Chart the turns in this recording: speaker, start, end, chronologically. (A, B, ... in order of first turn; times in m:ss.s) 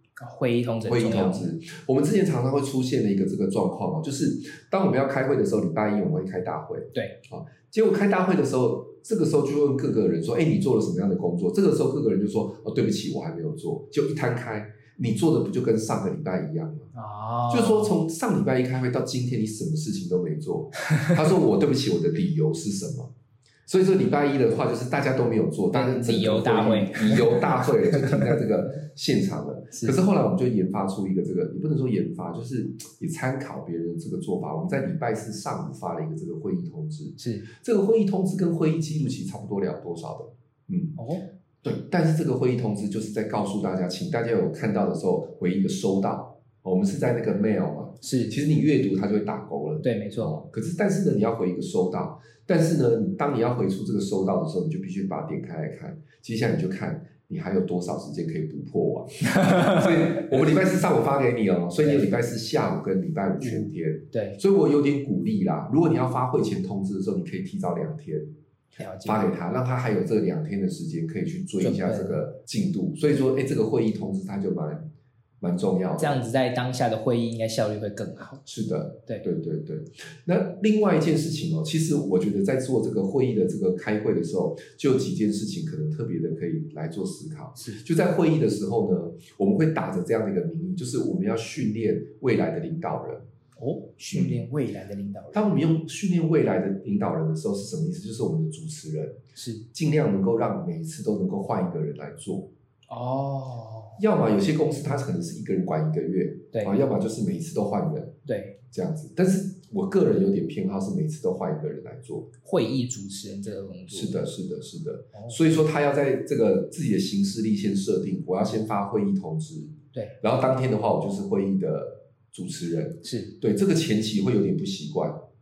0:00.2-0:01.5 A
0:00.8-0:16.9 B
0:16.9-0:17.9 A
0:17.5-0:23.1 B
0:20.9-0:21.1 A
0:23.7-0:41.0 B
0:25.7-0:28.4 A
0:37.2-0:37.5 A
0:41.0-0:41.3 A
0:41.6-1:08.3 B
0:48.0-0:48.4 A
0:49.8-0:50.3 A
0:59.3-1:00.0 A
1:03.4-1:04.4 A
1:08.8-1:09.3 A
1:09.0-1:14.9 B
1:11.6-1:12.2 A
1:15.4-1:16.2 B
1:16.0-1:18.5 A
1:18.5-1:33.3 B
1:27.6-1:27.8 A
1:33.6-1:35.6 A
1:34.1-1:34.4 B
1:35.3-1:39.2 B
1:39.4-1:39.6 A
1:39.7-1:42.5 B
1:42.9-1:44.0 A
1:44.0-1:48.2 B
1:48.3-1:48.6 A
1:48.7-1:52.3 B
1:52.4-1:54.3 A
1:53.9-2:05.2 B
1:55.1-1:55.4 A
2:03.0-2:03.4 A